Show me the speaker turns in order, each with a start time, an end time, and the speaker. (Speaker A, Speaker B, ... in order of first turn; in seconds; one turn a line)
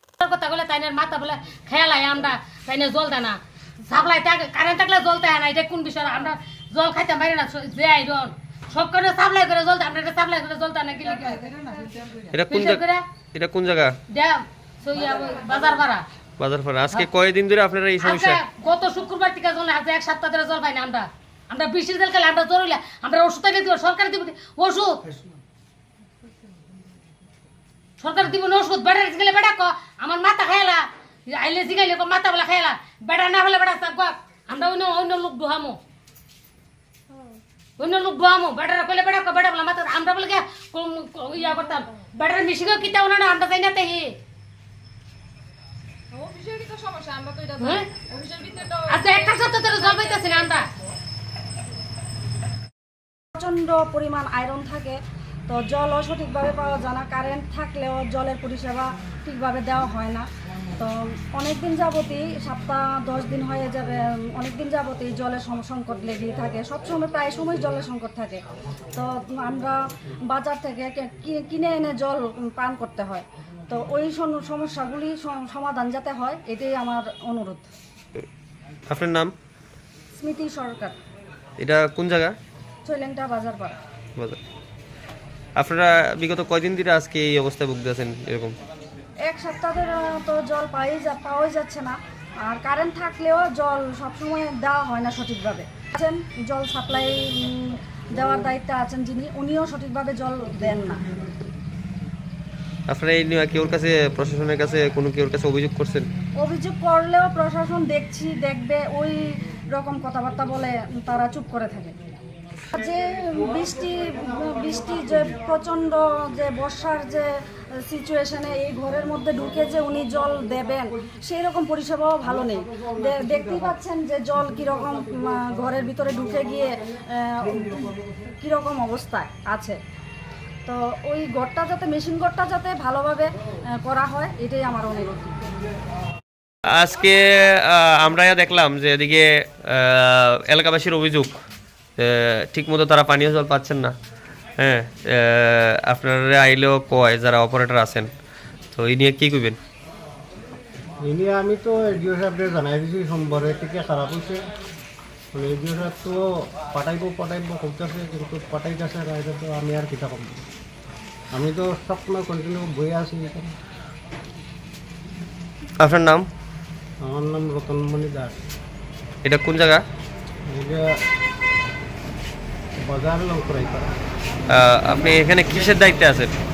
Speaker A: 0.2-11.5
Speaker B: 12.3-12.8
Speaker A: 12.5-13.0
Speaker B: 13.3-14.0
Speaker A: 14.1-16.0
Speaker B: 16.4-18.4
Speaker A: 18.0-25.0
Speaker A: 28.0-35.8
Speaker A: 37.8-44.1
Speaker C: 46.1-49.3
Speaker A: 47.6-47.9
Speaker A: 48.9-50.7
Speaker D: 53.4-60.3
Speaker D: 60.8-68.4
Speaker D: 68.9-77.7
Speaker B: 78.9-79.3
Speaker D: 80.2-81.0
Speaker B: 81.6-82.3
Speaker D: 82.8-83.8
Speaker B: 85.6-88.6
Speaker D: 89.3-101.0
Speaker B: 102.9-106.1
Speaker D: 106.4-112.0
Speaker D: 112.7-117.3
Speaker D: 117.8-129.8
Speaker D: 130.7-135.4
Speaker B: 136.7-141.4
Speaker B: 142.0-143.9
Speaker B: 144.6-148.1
Speaker B: 148.8-149.6
Speaker E: 151.0-154.4
Speaker E: 155.3-160.4
Speaker E: 161.3-163.6
Speaker B: 165.8-166.3
Speaker E: 167.0-168.4
Speaker B: 169.2-169.8
Speaker E: 170.5-170.9
Speaker E: 172.8-173.9
Speaker B: 174.5-176.3